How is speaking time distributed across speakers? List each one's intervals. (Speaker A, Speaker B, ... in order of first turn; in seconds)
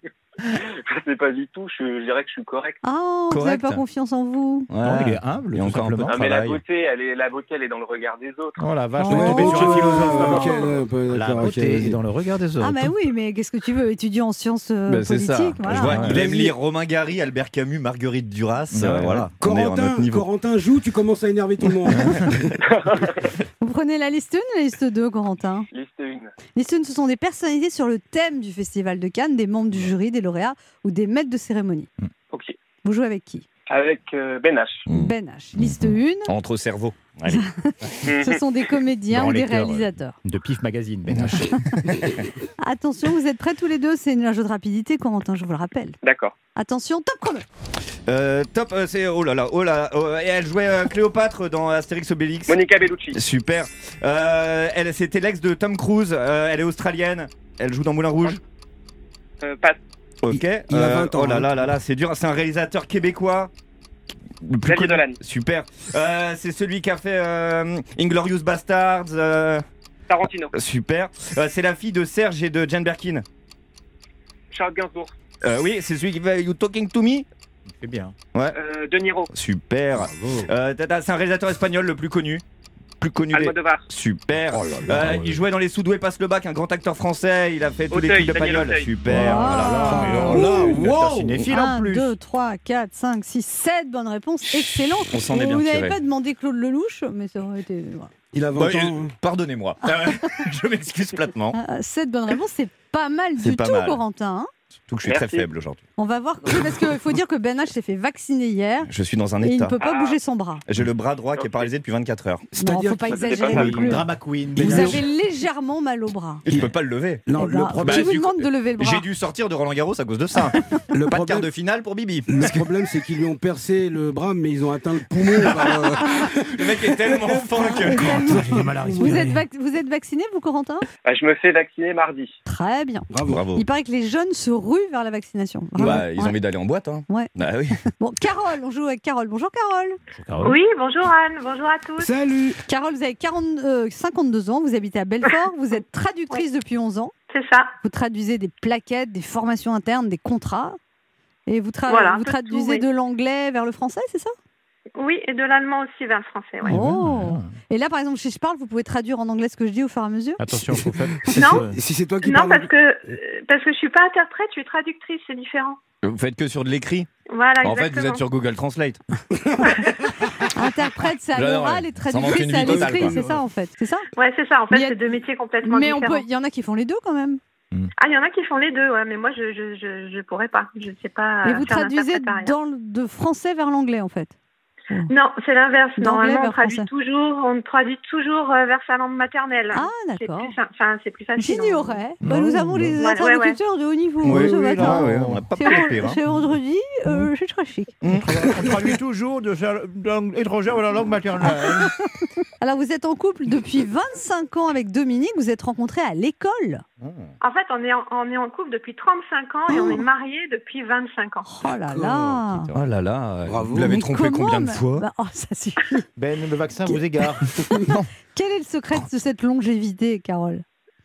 Speaker A: 0.5-2.8, 6.1-8.6, 22.7-23.3, 25.7-26.3, 32.3-32.5, 33.7-34.9, 38.0-38.4, 46.0-46.3, 52.5-53.2, 59.4-59.8, 64.6-65.2, 70.1-70.5, 74.5-75.1, 78.5-79.3, 83.3-83.8, 87.9-89.0, 105.0-105.5, 109.8-110.2, 111.3-111.7, 113.1-113.9, 131.0-132.3
Speaker B: 2.8-4.7, 9.0-10.7, 12.6-16.1, 23.6-25.7, 26.5-31.9, 32.8-33.5, 34.9-36.3, 37.3-40.2, 42.6-46.0, 46.5-47.5, 89.1-90.8, 91.5-98.1, 101.5-104.5, 106.0-110.6, 112.6-116.4, 117.3-119.1, 128.0-130.8, 132.4-136.4, 138.0-140.0, 142.7-147.1, 147.8-150.8, 151.5-154.3, 156.7-160.4, 170.5-174.1, 174.7-175.0, 175.6-177.4, 181.4-184.3, 186.0-186.9, 189.7-190.5, 191.4-197.9, 202.6-206.8, 211.4-212.7, 213.9-216.1, 218.3-220.6
Speaker C: 3.3-3.8, 4.7-6.6, 14.9-20.3, 34.9-37.4, 48.1-58.4, 60.2-63.5, 64.4-69.6, 70.5-73.2, 75.4-77.2, 79.3-82.4, 83.0-90.6, 95.0-96.0, 98.5-101.6, 103.4-104.0, 104.9-105.8, 108.9-109.8, 110.7-112.4, 116.5-117.2, 117.8-122.6, 126.5-128.4, 133.2-133.7, 135.8-137.8, 166.0-167.1, 167.6-169.0, 171.3-173.1, 194.2-196.2, 198.0-198.3, 212.7-215.1, 217.8-218.1
Speaker D: 4.8-6.2, 8.6-12.9, 15.7-16.2, 18.7-19.3, 39.1-42.0, 77.8-78.2, 89.1-92.1, 113.8-115.0, 128.5-129.3, 140.1-140.6, 156.7-157.5, 160.4-161.7, 192.2-192.7, 194.2-195.4, 198.1-202.0, 207.0-207.3, 216.2-217.4
Speaker E: 9.1-12.0, 16.0-16.5, 19.1-22.6, 60.3-61.5, 84.5-85.1, 89.8-91.3, 98.3-99.1, 112.5-114.0, 114.6-115.0, 116.5-116.7, 117.2-118.2, 120.9-121.5, 122.3-129.3, 133.1-133.4, 142.0-142.6, 160.7-162.7, 169.4-169.8, 172.5-173.4, 211.9-212.6, 213.4-214.1
Speaker F: 140.4-142.1, 147.3-147.7, 151.9-152.8, 155.0-156.8, 161.3-161.7, 162.2-165.8, 167.3-168.2, 174.2-176.2, 178.0-182.5, 185.1-192.0, 193.0-193.6, 207.4-211.4